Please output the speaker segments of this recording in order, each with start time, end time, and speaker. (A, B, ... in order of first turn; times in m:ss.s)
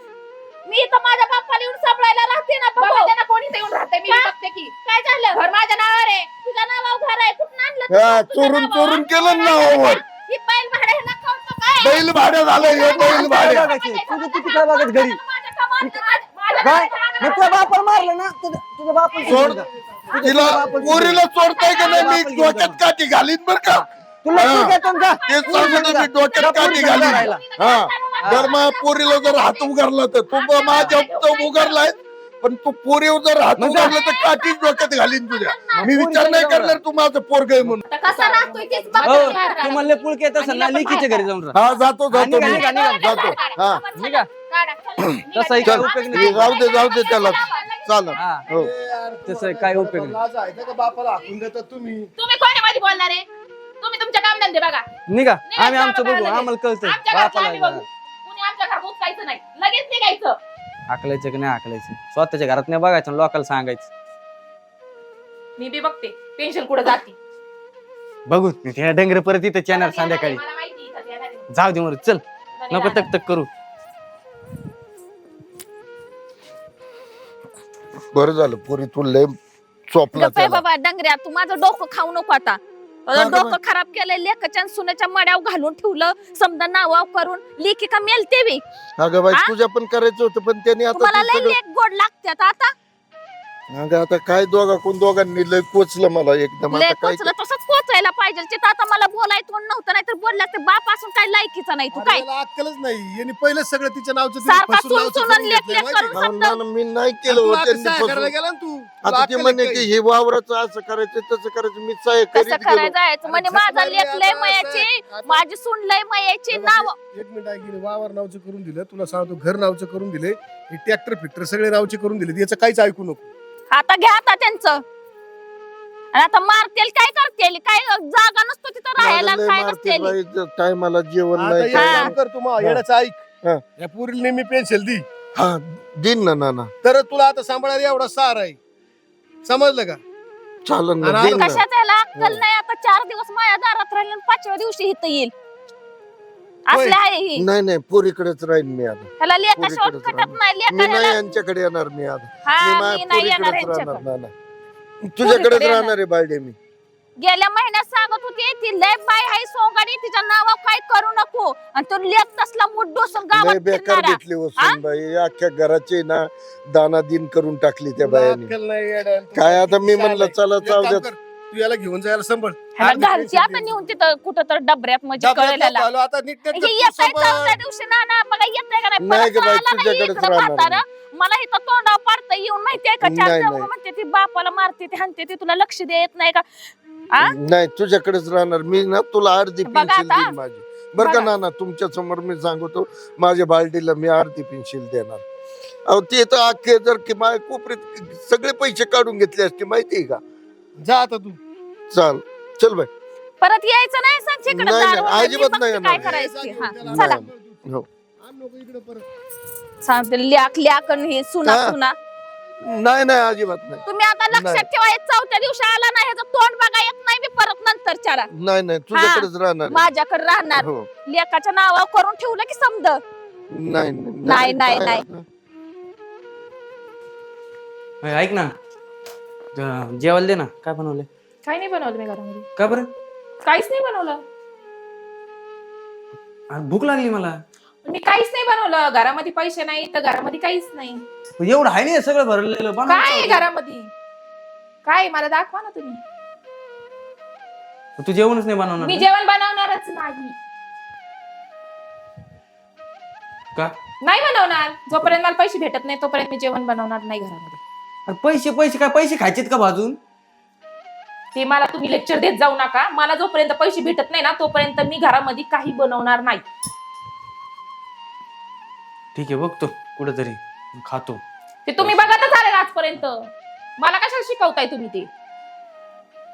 0:00.7-0:03.1 A
0:02.8-0:06.3 B
0:05.0-0:05.4 A
0:06.4-0:18.1 A
0:07.9-0:10.0 C
0:11.8-0:13.7 C
0:13.0-0:15.2 D
0:16.2-0:17.5 B
0:16.6-0:21.3 D
0:19.3-0:21.1 E
0:19.3-0:19.6 C
0:20.2-0:24.7 C
0:21.5-0:22.1 A
0:21.8-0:22.8 D
0:23.7-0:27.4 D
0:25.0-0:25.5 B
0:25.3-0:37.8 C
0:27.3-0:28.4 B
0:27.6-0:29.6 A
0:28.2-0:28.6 D
0:30.3-0:31.8 B
0:33.6-0:34.0 D
0:33.8-0:35.8 A
0:35.8-0:36.8 D
0:37.9-0:41.3 B
0:37.9-0:39.8 A
0:38.1-0:39.3 E
0:39.0-0:41.6 D
0:41.5-0:43.8 C
0:42.1-0:43.3 D
0:42.4-0:44.3 A
0:42.6-0:43.6 B
0:44.0-0:44.3 D
0:44.5-0:46.2 B
0:45.3-0:46.8 D
0:45.6-0:48.7 C
0:45.6-0:47.7 A
0:47.2-0:47.9 B
0:48.2-0:48.4 D
0:48.5-0:52.1 E
0:49.3-0:50.2 D
0:52.2-0:53.3 B
0:53.8-0:54.9 B
0:55.1-0:57.8 D
0:55.5-1:00.4 B
1:00.9-1:03.9 D
1:05.6-1:07.2 B
1:08.3-1:10.4 D
1:09.7-1:11.5 B
1:11.5-1:13.5 D
1:12.6-1:13.1 B
1:18.1-1:19.4 C
1:19.9-1:20.6 C
1:20.1-1:28.6 A
1:23.1-1:23.6 C
1:29.0-1:31.6 C
1:30.9-1:32.7 A
1:33.7-1:37.3 C
1:36.7-1:42.3 A
1:41.9-1:46.2 E
1:44.4-1:46.6 A
1:46.1-1:48.3 C
1:47.3-1:49.9 E
1:49.0-1:53.0 C
1:52.3-1:57.0 A
1:53.2-1:55.4 E
1:56.5-2:03.3 E
2:03.7-2:04.8 A
2:06.1-2:10.2 A
2:09.0-2:12.8 C
2:11.4-2:13.2 E
2:11.7-2:12.1 A
2:13.8-2:15.0 E
2:15.4-2:16.7 C
2:16.8-2:18.6 E
2:19.4-2:20.0 E
2:20.6-2:22.4 C
2:21.0-2:21.5 E
2:21.3-2:25.3 A
2:26.7-2:27.5 A
2:26.7-2:27.0 E
2:27.4-2:34.3 C
2:29.2-2:31.3 A
2:32.5-2:34.0 A
2:35.1-2:36.6 C
2:35.2-2:35.9 A
2:37.2-2:44.8 A
2:43.3-2:48.5 C
2:48.0-2:54.0 E
2:49.3-2:51.1 C
2:52.8-2:55.9 A
2:55.2-2:57.6 E
2:56.5-3:06.5 A
2:59.0-3:00.8 C
3:03.0-3:03.7 C
3:07.2-3:15.2 C
3:09.6-3:10.3 A
3:11.0-3:11.3 A
3:15.9-3:20.2 C
3:20.8-3:21.4 E
3:21.9-3:22.9 C
3:23.4-3:27.2 A
3:24.5-3:26.2 C
3:25.9-3:27.6 E
3:26.8-3:27.9 C
3:28.2-3:29.0 E
3:29.8-3:32.0 A
3:31.4-3:31.8 C
3:32.6-3:34.7 C
3:33.9-3:38.3 A
3:38.3-3:39.9 C
3:38.9-3:43.0 A
3:40.6-3:40.9 C
3:43.5-3:45.2 C
3:44.2-3:45.0 A
3:48.0-3:48.5 D
3:49.6-3:51.1 D
3:51.4-3:52.5 B
3:52.6-3:52.9 D
3:53.4-3:54.2 B
3:56.5-3:57.4 D
3:57.8-4:01.0 B
4:01.4-4:03.4 D
4:02.9-4:03.9 B
4:04.8-4:06.0 B
4:08.0-4:09.1 D
4:08.8-4:10.4 B
4:14.0-4:17.6 B
4:18.1-4:20.0 D
4:21.4-4:26.4 B
4:29.2-4:31.2 D
4:31.7-4:35.1 B
4:31.8-4:32.1 D